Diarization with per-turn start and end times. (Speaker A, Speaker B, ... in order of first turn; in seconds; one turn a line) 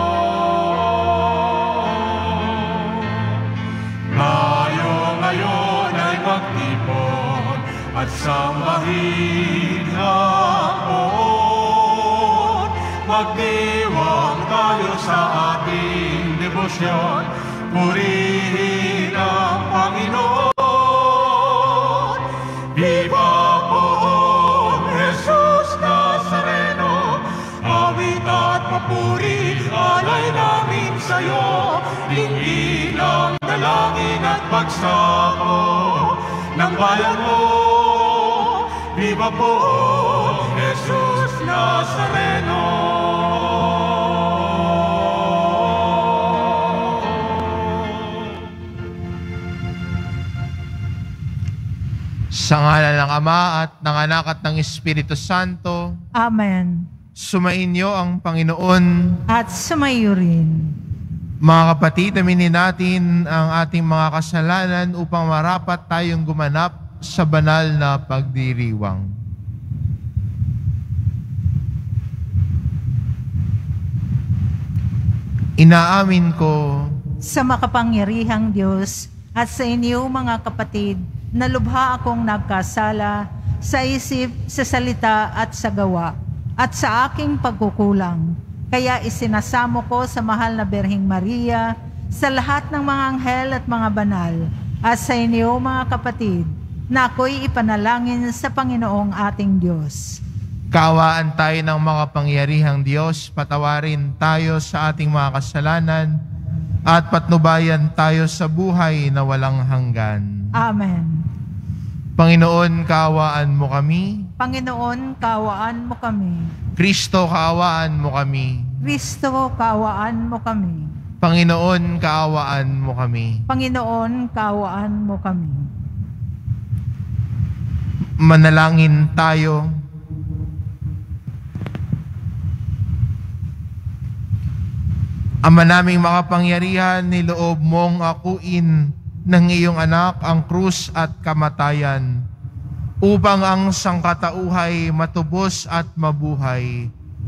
Speaker A: 0.2-3.2
Speaker A: 4.1-22.2
Speaker A: 22.7-44.1
Speaker B: 52.3-56.0
Speaker C: 56.2-56.9
Speaker B: 57.1-59.2
Speaker C: 59.3-60.7
Speaker B: 61.4-69.1
Speaker B: 75.6-76.9
Speaker C: 77.2-100.2
Speaker B: 100.7-106.1
Speaker B: 106.9-110.3
Speaker C: 110.6-111.2
Speaker B: 112.2-114.3
Speaker C: 114.4-116.5
Speaker B: 116.8-118.7
Speaker C: 118.8-120.9
Speaker B: 121.2-123.4
Speaker C: 123.5-125.7
Speaker B: 128.2-129.7
Speaker B: 135.4-142.2
Speaker B: 143.0-146.9